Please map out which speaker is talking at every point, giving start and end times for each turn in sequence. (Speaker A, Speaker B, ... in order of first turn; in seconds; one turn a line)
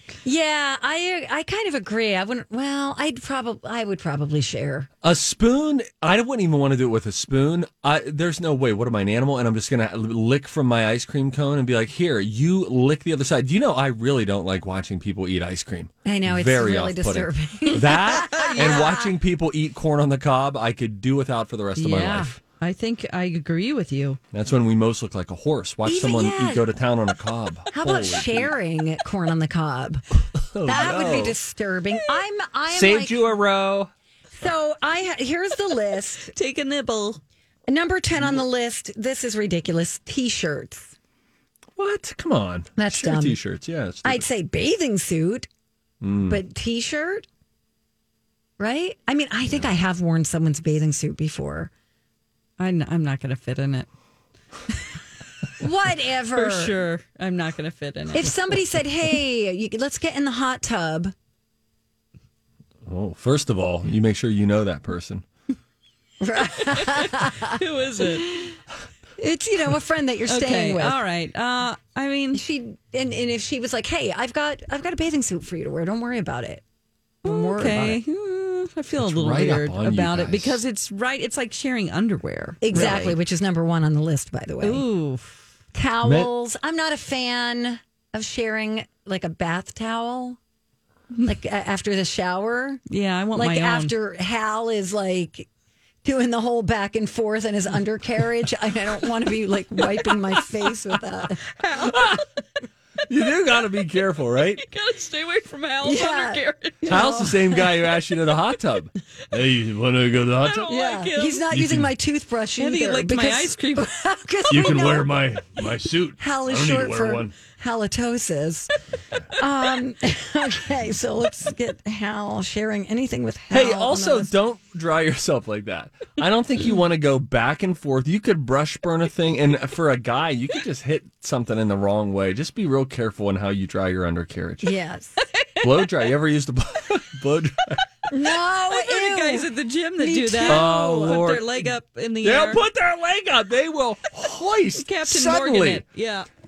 Speaker A: 0.2-4.9
Speaker B: 5.0-22.4
Speaker A: 16.1-19.1
Speaker C: 21.8-24.2
Speaker B: 24.3-28.5
Speaker A: 25.8-26.7
Speaker A: 27.7-30.0
Speaker B: 30.4-31.4
Speaker A: 30.6-33.4
Speaker B: 32.7-33.9
Speaker A: 34.4-36.3
Speaker C: 36.3-37.2
Speaker A: 37.7-40.9
Speaker B: 41.8-44.3
Speaker A: 42.8-43.4
Speaker A: 44.0-45.5
Speaker B: 46.0-46.4
Speaker A: 46.3-47.3
Speaker A: 48.6-51.7
Speaker C: 52.6-53.9
Speaker A: 55.6-56.8
Speaker C: 56.3-58.4
Speaker A: 58.1-61.1
Speaker B: 62.9-65.2
Speaker A: 66.2-68.6
Speaker C: 66.4-68.3
Speaker A: 69.2-71.0
Speaker C: 70.3-72.4
Speaker A: 72.3-76.6
Speaker A: 77.2-78.0
Speaker C: 77.2-83.2
Speaker B: 79.0-80.6
Speaker A: 82.6-84.9
Speaker B: 82.7-83.1
Speaker C: 84.6-85.4
Speaker A: 85.7-90.4
Speaker B: 86.0-86.3
Speaker A: 91.2-92.8
Speaker C: 92.9-93.9
Speaker A: 93.3-95.5
Speaker A: 96.0-101.4
Speaker C: 101.5-102.2
Speaker B: 101.9-102.2
Speaker B: 103.1-104.6
Speaker C: 104.6-107.3
Speaker A: 105.8-107.4
Speaker B: 106.9-110.7
Speaker C: 110.4-111.5
Speaker A: 110.7-115.1
Speaker B: 111.5-111.9
Speaker C: 112.6-114.0
Speaker B: 114.5-117.3
Speaker A: 116.2-118.7
Speaker A: 119.3-124.3
Speaker B: 123.5-134.7
Speaker A: 134.6-135.2
Speaker B: 135.6-137.8
Speaker A: 138.1-139.5
Speaker C: 138.7-142.6
Speaker A: 140.0-141.1
Speaker B: 140.5-141.7
Speaker B: 142.2-145.8
Speaker C: 144.8-146.3